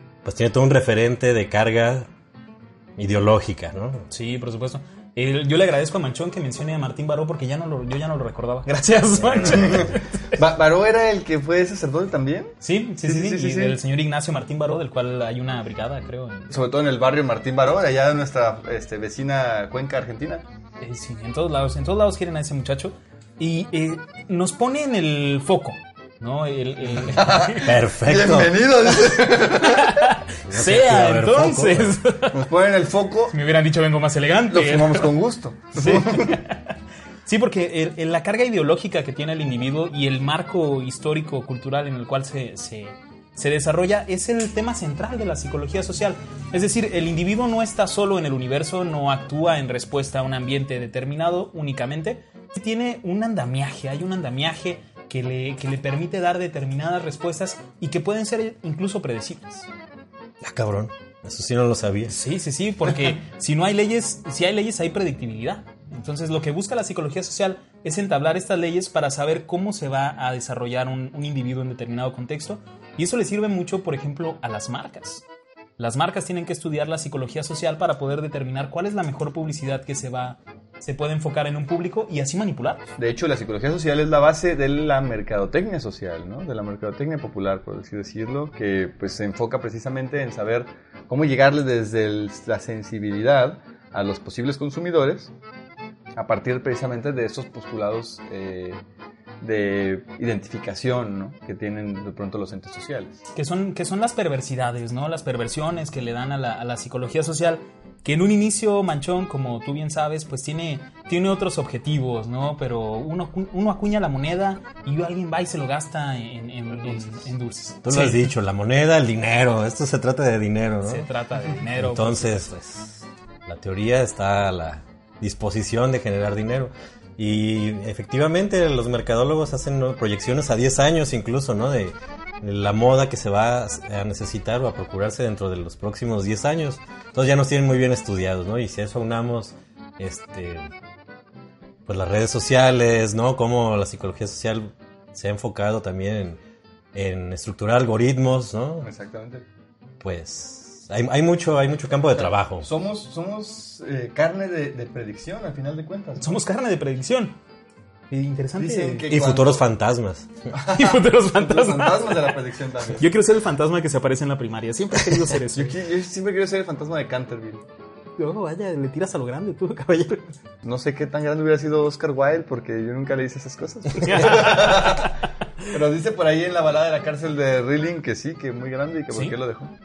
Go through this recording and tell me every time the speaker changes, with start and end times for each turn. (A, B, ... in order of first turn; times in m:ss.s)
0:00.2-0:02.1 A
0:03.0-0:04.1 A
0:04.1-0:10.4 B
0:09.2-0:09.8 A
0:09.4-0:13.8 C
0:12.6-0:16.5 B
0:16.5-0:20.4 C
0:20.8-0:27.7 B
0:27.0-0:30.0 C
0:27.5-0:28.6 A
0:29.1-0:32.5 B
0:30.5-0:32.0 A
0:32.3-0:33.4 C
0:33.3-0:35.1 B
0:34.5-0:36.4 C
0:35.8-0:36.7 B
0:37.3-0:59.7 B
1:00.4-1:02.2 A
1:02.1-1:15.2 B
1:15.8-1:22.9 B
1:23.0-1:35.3 C
1:36.2-1:38.8 C
1:39.4-1:43.2 C
1:43.4-1:58.3 B
1:57.8-2:01.1 A
2:00.8-2:02.5 B
2:01.7-2:20.7 A
2:21.9-2:26.4 A
2:26.9-2:28.9 A
2:28.8-2:29.4 C
2:30.0-2:32.7 A
2:32.1-2:36.4 C
2:36.2-2:37.4 B
2:38.1-2:39.1 B
2:38.6-2:39.6 C
2:39.1-2:40.3 A
2:40.5-2:43.0 C
2:40.7-2:42.3 B
2:43.0-2:45.8 B
2:45.5-2:47.6 C
2:48.2-2:50.3 B
2:50.6-2:55.1 C
2:54.0-2:55.7 B
2:55.6-2:59.7 C